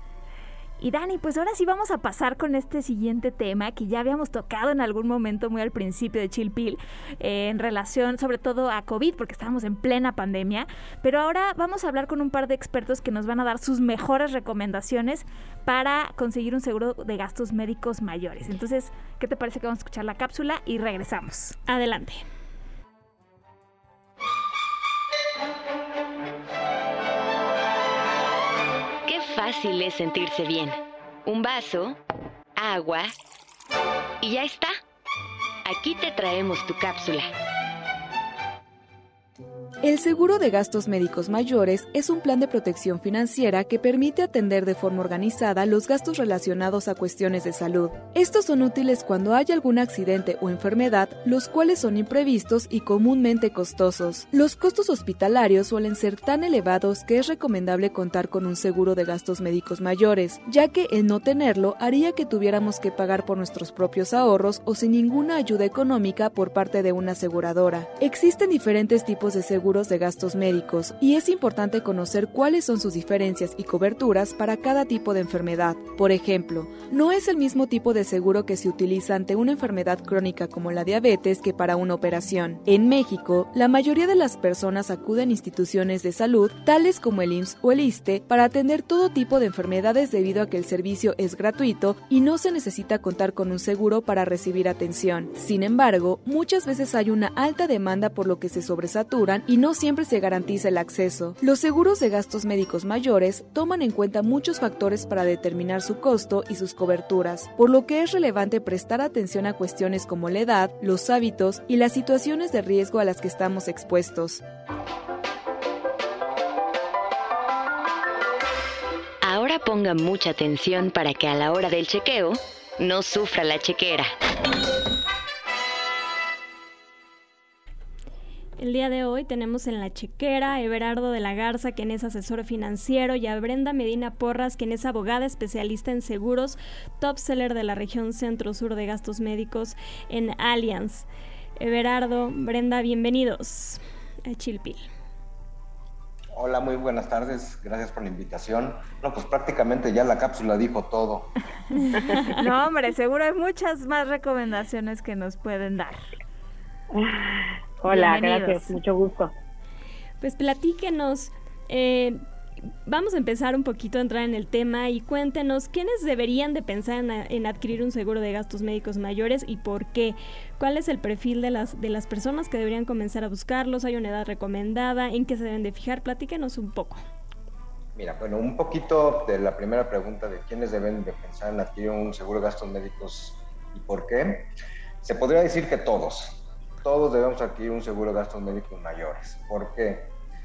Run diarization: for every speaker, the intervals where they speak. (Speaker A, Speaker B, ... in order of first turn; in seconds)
Speaker A: 0.8-21.6, 152.3-156.1, 157.9-158.8
Speaker B: 21.7-22.2, 128.6-141.1, 141.6-144.8, 151.7-152.4, 160.2-177.0
Speaker C: 29.1-32.0, 32.6-33.1, 34.2-34.8, 35.6-37.3, 119.2-124.1
Speaker D: 39.8-114.4
Speaker E: 146.3-151.3, 177.9-184.5, 185.0-190.1
Speaker F: 156.9-159.3